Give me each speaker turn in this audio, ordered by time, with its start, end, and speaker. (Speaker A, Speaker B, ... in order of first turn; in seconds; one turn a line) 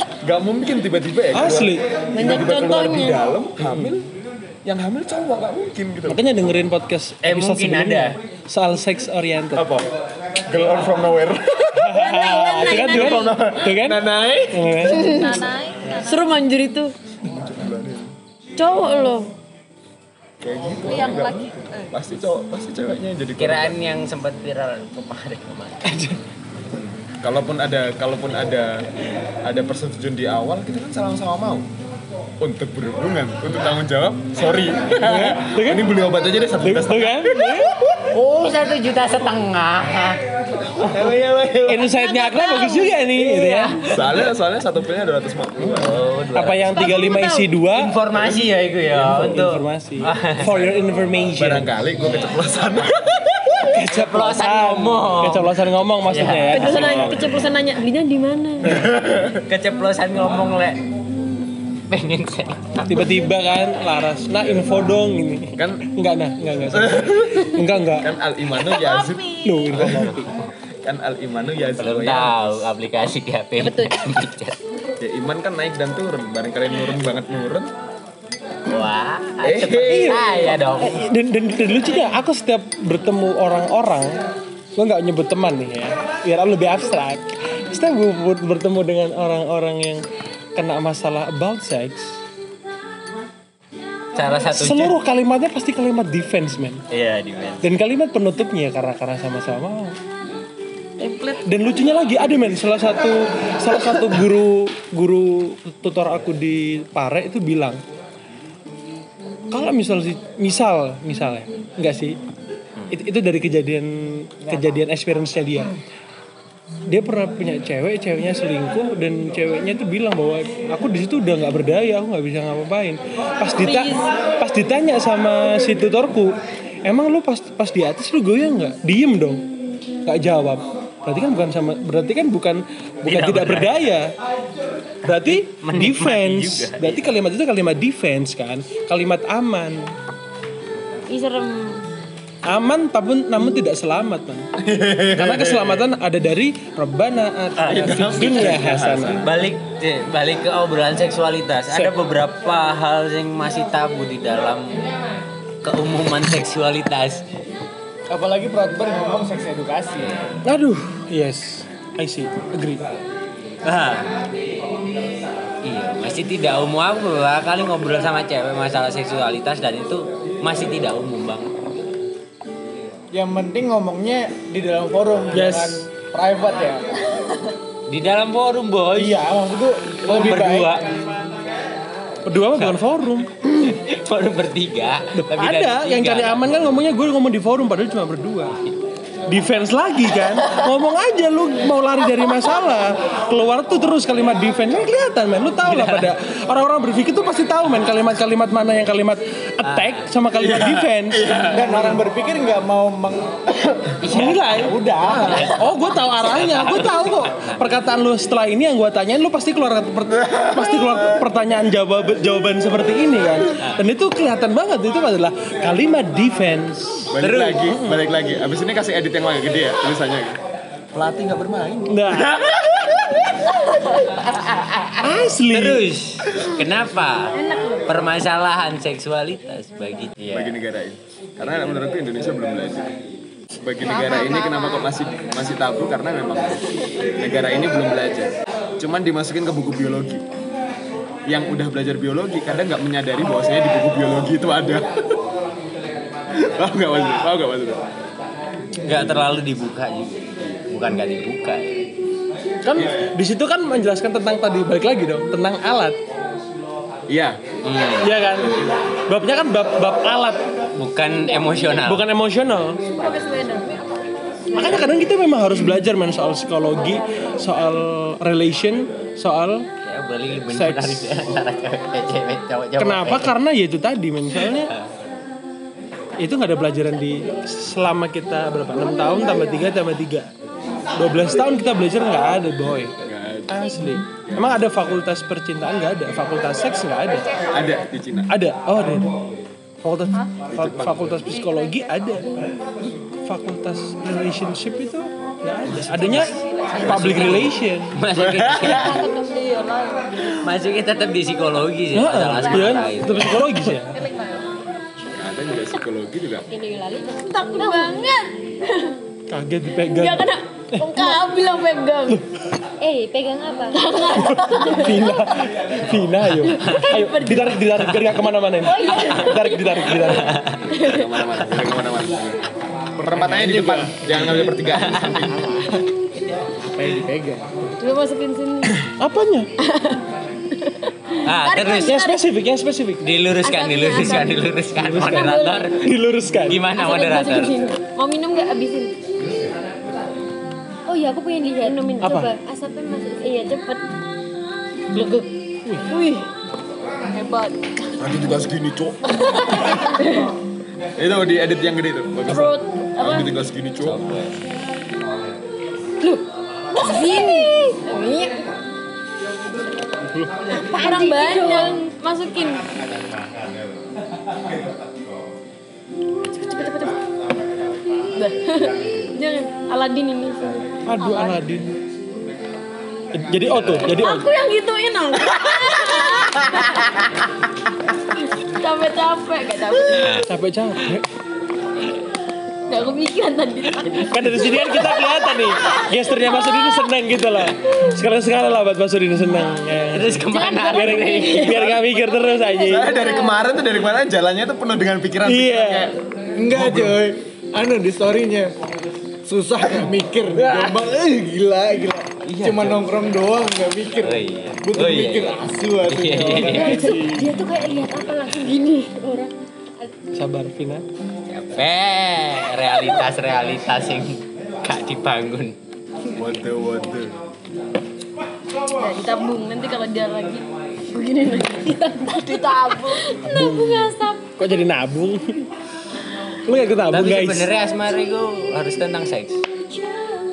Speaker A: 0.2-4.1
Speaker B: 1.3-1.9
Speaker C: 2.1-3.2
Speaker B: 3.6-4.0
Speaker A: 4.7-6.4
Speaker B: 6.1-9.7
Speaker D: 7.2-8.2
Speaker A: 9.5-9.9
Speaker A: 10.4-12.0
Speaker B: 11.8-14.0
Speaker C: 11.9-13.3
Speaker A: 12.9-15.4
Speaker B: 14.5-15.3
Speaker C: 14.8-16.9
Speaker A: 17.2-18.1
Speaker C: 18.6-19.3
Speaker A: 20.4-23.8
Speaker C: 20.9-21.5
Speaker D: 23.4-26.0
Speaker B: 25.9-26.2
Speaker A: 26.7-28.9
Speaker A: 29.4-31.7
Speaker A: 32.4-38.0
Speaker B: 35.0-35.9
Speaker B: 36.6-37.8
Speaker D: 38.1-41.9
Speaker B: 41.7-43.8
Speaker C: 42.0-43.0
Speaker D: 43.2-44.1
Speaker A: 43.9-46.0
Speaker D: 45.7-46.9
Speaker B: 46.3-48.4
Speaker C: 46.7-47.5
Speaker D: 47.7-50.8
Speaker B: 48.9-51.7
Speaker A: 51.4-53.9
Speaker D: 52.0-52.3
Speaker B: 53.7-57.2
Speaker D: 53.9-57.3
Speaker C: 56.5-58.7
Speaker A: 58.6-59.5
Speaker B: 58.7-59.0
Speaker D: 59.5-60.8
Speaker D: 61.9-63.3
Speaker B: 62.9-68.1
Speaker A: 65.6-65.9
Speaker A: 66.7-70.1
Speaker C: 68.7-69.6
Speaker B: 69.4-70.3
Speaker D: 69.8-70.5
Speaker A: 70.8-72.7
Speaker D: 71.8-74.6
Speaker C: 73.6-73.9
Speaker A: 75.0-77.7
Speaker D: 78.7-81.1
Speaker A: 79.4-80.2
Speaker B: 79.9-84.2
Speaker B: 84.8-92.1
Speaker D: 94.2-95.0
Speaker B: 94.5-96.8
Speaker D: 96.9-97.7
Speaker B: 97.6-100.0
Speaker D: 101.0-101.4
Speaker B: 101.4-107.8
Speaker B: 109.5-112.2
Speaker B: 112.9-115.8
Speaker E: 114.5-114.8
Speaker B: 116.9-129.4
Speaker C: 123.6-124.1
Speaker B: 130.1-134.1
Speaker D: 133.1-133.9
Speaker B: 135.0-139.9
Speaker D: 135.1-137.1
Speaker C: 141.1-141.8
Speaker B: 142.5-144.5
Speaker A: 144.6-145.8
Speaker B: 145.1-149.2
Speaker D: 147.6-148.4
Speaker A: 147.7-149.4
Speaker D: 149.2-154.8
Speaker D: 155.6-157.2
Speaker E: 158.1-160.1
Speaker D: 160.0-160.2
Speaker B: 160.4-162.8
Speaker D: 163.6-164.1
Speaker D: 165.7-171.5
Speaker E: 173.1-176.9
Speaker B: 175.3-175.8
Speaker D: 177.9-179.2
Speaker B: 179.0-179.5
Speaker E: 179.0-180.8
Speaker D: 180.1-180.9
Speaker B: 182.3-183.3
Speaker D: 183.4-186.6
Speaker B: 185.2-188.5
Speaker B: 189.3-201.3
Speaker D: 195.7-196.1
Speaker D: 199.6-200.0
Speaker A: 200.4-201.9
Speaker E: 201.5-205.6
Speaker D: 204.0-204.5
Speaker B: 204.1-217.1
Speaker D: 205.1-207.6
Speaker A: 210.1-211.3
Speaker A: 217.1-220.4
Speaker D: 217.2-217.6
Speaker B: 217.7-218.0
Speaker A: 220.9-223.5
Speaker B: 221.9-222.5
Speaker D: 223.8-230.6
Speaker B: 225.0-225.9
Speaker C: 227.3-227.9
Speaker A: 230.3-232.9
Speaker A: 233.6-240.2
Speaker C: 233.9-234.6
Speaker F: 233.9-234.8
Speaker A: 241.3-245.1
Speaker A: 246.3-247.8
Speaker D: 248.8-251.9
Speaker B: 252.7-256.0
Speaker A: 252.8-253.1
Speaker A: 257.1-257.4
Speaker D: 257.6-258.1
Speaker B: 258.0-260.4
Speaker D: 260.7-262.1
Speaker B: 261.8-262.9
Speaker F: 262.9-264.9
Speaker C: 263.1-263.6
Speaker B: 264.6-269.7
Speaker D: 269.9-273.4
Speaker B: 270.5-271.1
Speaker B: 272.8-274.7
Speaker D: 274.4-274.9
Speaker B: 276.2-280.3
Speaker F: 276.6-277.4
Speaker F: 278.8-279.7
Speaker B: 281.0-282.9
Speaker A: 283.0-283.7
Speaker B: 283.5-287.3
Speaker A: 284.2-284.6
Speaker A: 287.4-288.3
Speaker B: 288.3-289.1
Speaker B: 289.8-292.3
Speaker A: 290.4-291.3
Speaker B: 293.2-298.0
Speaker D: 295.8-299.1
Speaker A: 298.1-299.1
Speaker F: 298.9-299.7
Speaker D: 300.3-303.5
Speaker B: 301.9-304.1
Speaker A: 305.1-306.5
Speaker F: 306.5-308.2
Speaker C: 307.1-308.9
Speaker B: 309.3-311.1
Speaker C: 309.9-312.2
Speaker F: 312.8-314.8
Speaker C: 313.7-315.5
Speaker B: 314.2-320.4
Speaker C: 316.4-317.7
Speaker C: 318.6-320.2
Speaker D: 318.9-319.3
Speaker D: 319.9-320.6
Speaker A: 320.5-322.4
Speaker C: 320.8-321.1
Speaker A: 323.0-325.5
Speaker E: 323.1-323.9
Speaker D: 323.4-325.3
Speaker E: 325.1-325.9
Speaker E: 326.6-327.6
Speaker C: 327.8-328.8
Speaker B: 328.9-329.5
Speaker C: 329.6-330.0
Speaker C: 330.5-332.2
Speaker D: 331.2-332.0
Speaker B: 331.7-333.0
Speaker D: 333.0-337.7
Speaker F: 333.5-334.4
Speaker C: 333.8-334.3
Speaker B: 334.8-336.6
Speaker C: 334.9-335.7
Speaker C: 336.7-338.9
Speaker F: 340.9-343.6
Speaker C: 341.6-342.2
Speaker B: 342.0-342.3
Speaker C: 343.2-343.8
Speaker C: 344.9-345.3
Speaker C: 345.8-346.3
Speaker A: 348.0-349.8
Speaker C: 349.6-350.3
Speaker A: 351.0-354.2
Speaker C: 352.3-353.3
Speaker D: 353.8-354.4
Speaker C: 356.8-358.3
Speaker F: 356.8-357.8
Speaker F: 360.6-361.9
Speaker C: 360.8-362.7
Speaker C: 366.3-367.0
Speaker C: 368.1-371.4
Speaker B: 370.9-371.6
Speaker B: 373.1-374.3
Speaker C: 373.7-376.9
Speaker D: 376.8-377.1
Speaker C: 378.3-380.3
Speaker D: 379.9-380.3
Speaker B: 380.3-381.0
Speaker C: 382.7-386.9
Speaker B: 384.0-392.9
Speaker D: 389.9-391.8
Speaker C: 390.3-393.4
Speaker A: 392.6-396.0
Speaker B: 395.2-395.9
Speaker E: 396.4-398.6
Speaker A: 396.5-397.0
Speaker E: 399.2-407.3
Speaker B: 400.4-400.8
Speaker D: 402.3-402.8
Speaker D: 404.0-406.9
Speaker F: 406.4-409.9
Speaker B: 410.1-410.8
Speaker D: 411.3-415.6
Speaker A: 416.1-417.2
Speaker C: 418.7-423.5
Speaker F: 422.2-424.3
Speaker B: 423.2-425.4
Speaker B: 426.5-427.5
Speaker D: 426.9-429.4